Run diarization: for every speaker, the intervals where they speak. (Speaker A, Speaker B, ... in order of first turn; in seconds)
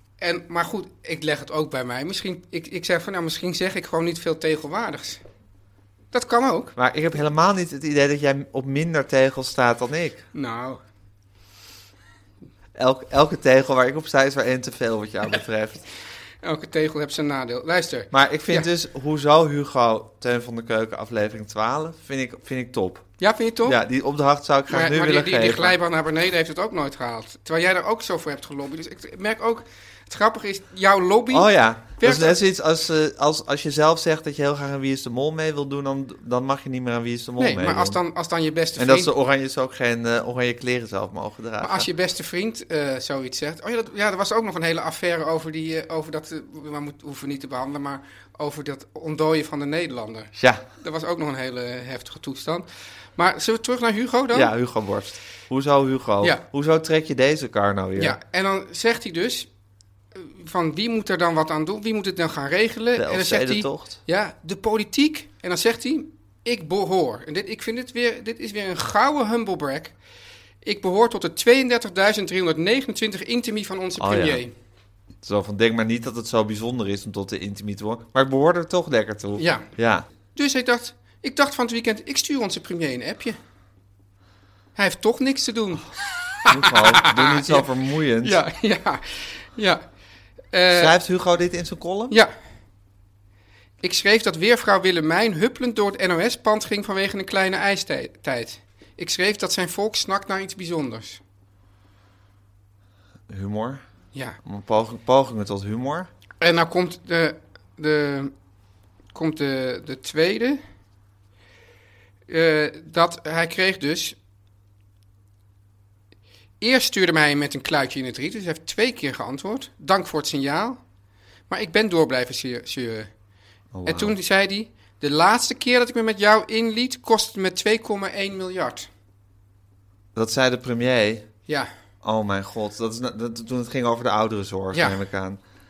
Speaker A: 0.2-5.2, 6.1-6.8, 10.3-10.8, 16.4-18.7, 23.2-23.8, 24.7-32.4, 37.4-39.1, 41.6-54.5, 58.0-59.5, 60.1-70.0, 70.6-74.5, 79.4-79.7, 80.3-83.4, 84.8-87.7, 88.2-89.8, 90.5-90.9, 93.8-101.2, 104.1-104.4, 106.4-108.3, 109.1-110.6, 112.3-114.2, 116.6-120.8, 121.5-123.1, 123.8-128.9, 134.7-135.0
Speaker B: 6.8-10.3, 12.8-15.8, 18.1-25.8, 31.3-38.0, 38.8-41.9, 50.4-50.6, 54.3-58.2, 63.0-64.0, 74.0-74.4, 75.2-80.0, 86.5-88.4, 90.7-92.2, 103.3-103.8, 104.4-106.1, 123.7-124.2, 130.2-131.3, 132.0-135.4